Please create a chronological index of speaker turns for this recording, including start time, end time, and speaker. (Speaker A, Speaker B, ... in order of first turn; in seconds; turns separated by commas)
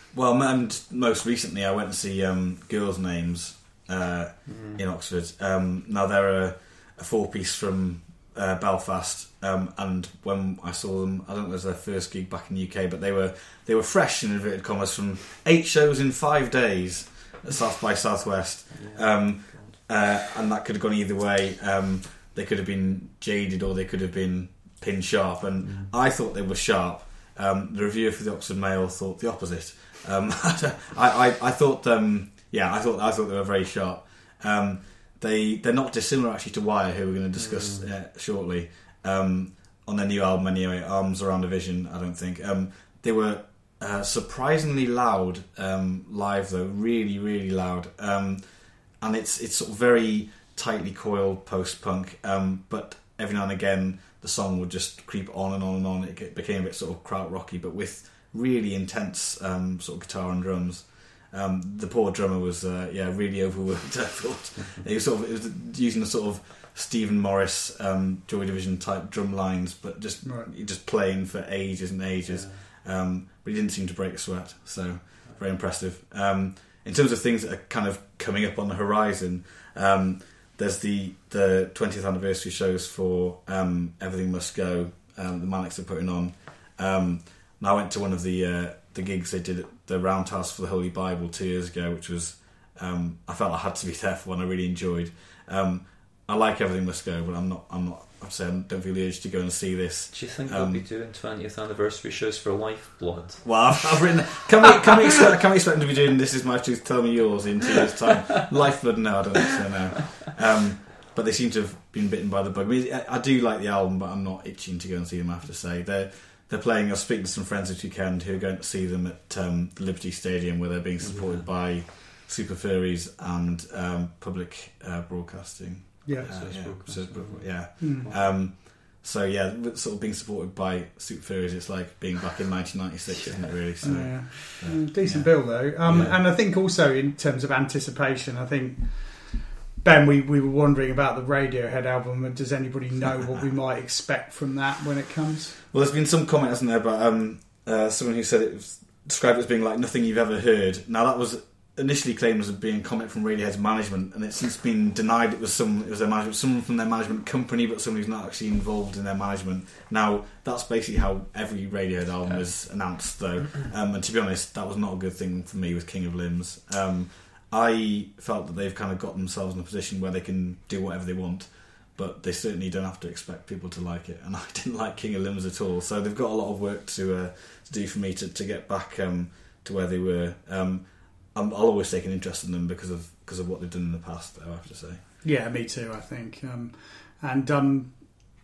Speaker A: 0.1-100.8, Speaker B: 4.5-4.8, Speaker B: 18.7-19.9, Speaker B: 25.6-25.9, Speaker B: 37.3-37.9, Speaker C: 70.2-70.5, Speaker B: 72.2-72.6, Speaker B: 100.1-104.9, Speaker A: 103.4-136.2, Speaker B: 121.0-121.5, Speaker C: 126.0-126.3, Speaker B: 126.2-128.3, Speaker C: 127.8-128.1, Speaker B: 133.2-134.3, Speaker C: 133.8-145.6, Speaker A: 145.7-185.0, Speaker C: 185.2-188.1